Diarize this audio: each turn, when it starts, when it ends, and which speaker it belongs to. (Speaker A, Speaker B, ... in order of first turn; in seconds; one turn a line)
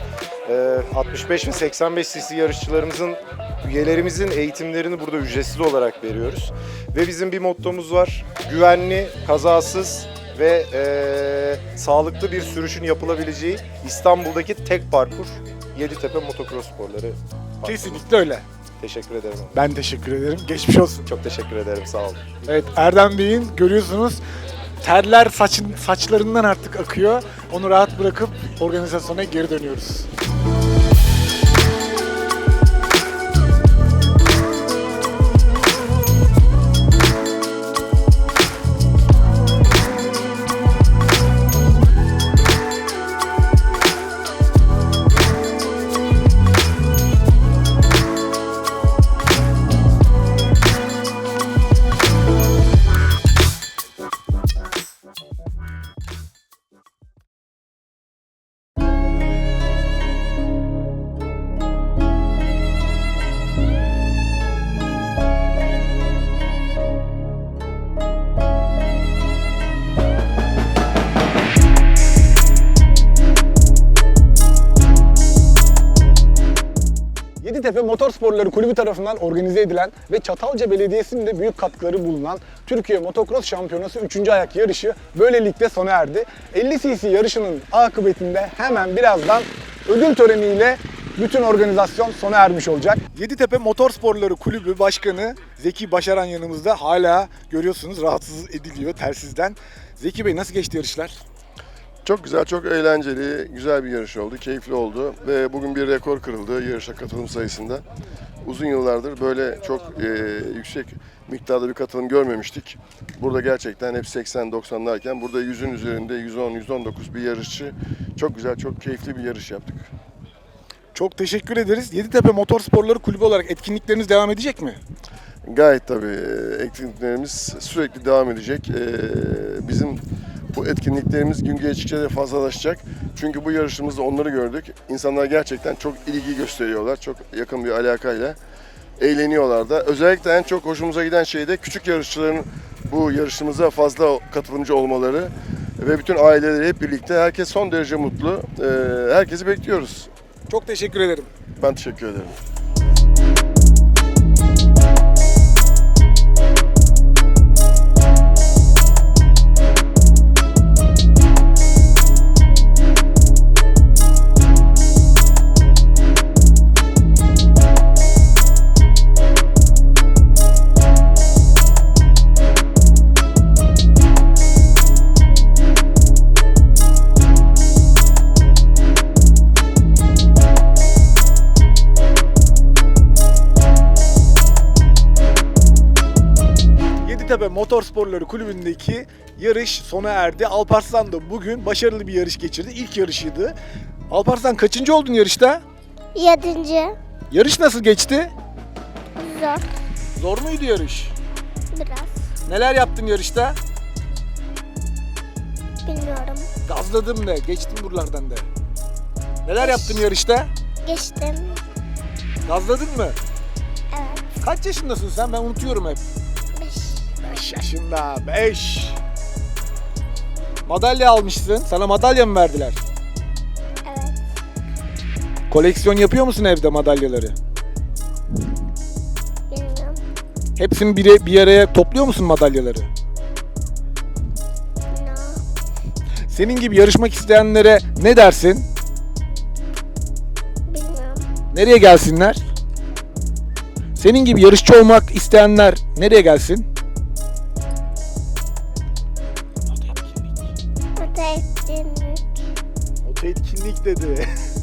Speaker A: 0.5-18.1
Speaker B: 17.6-18.4
Speaker A: 18.8-19.7
Speaker B: 19.5-21.1
Speaker A: 21.1-22.4
Speaker B: 22.5-24.2
Speaker B: 24.8-30.1
Speaker B: 77.4-101.2
Speaker C: 102.0-107.8
Speaker C: 108.4-119.9
Speaker B: 121.0-124.8
Speaker C: 125.5-130.0
Speaker C: 130.5-138.4
Speaker C: 139.0-150.1
Speaker B: 150.5-151.3
Speaker C: 151.6-152.4
Speaker B: 187.0-193.6
Speaker B: 194.1-195.6
Speaker D: 196.2-197.0
Speaker B: 197.3-198.3
Speaker D: 199.2-199.6
Speaker B: 200.2-201.1
Speaker D: 201.8-202.1
Speaker B: 202.5-203.6
Speaker D: 205.9-206.5
Speaker B: 206.7-208.5
Speaker B: 209.4-210.5
Speaker D: 209.6-210.0
Speaker D: 210.9-211.6
Speaker B: 212.5-213.2
Speaker D: 213.9-214.2
Speaker B: 214.4-216.0
Speaker D: 216.6-217.1
Speaker B: 217.2-219.0
Speaker B: 220.7-222.8
Speaker D: 223.9-224.2
Speaker B: 225.5-227.3
Speaker D: 229.5-230.0
Speaker B: 230.6-232.9
Speaker D: 234.9-235.4
Speaker B: 236.3-238.7
Speaker D: 240.7-241.2
Speaker B: 241.5-242.4
Speaker B: 244.0-246.7
Speaker B: 249.8-250.2
Speaker D: 251.0-252.2
Speaker B: 253.0-254.3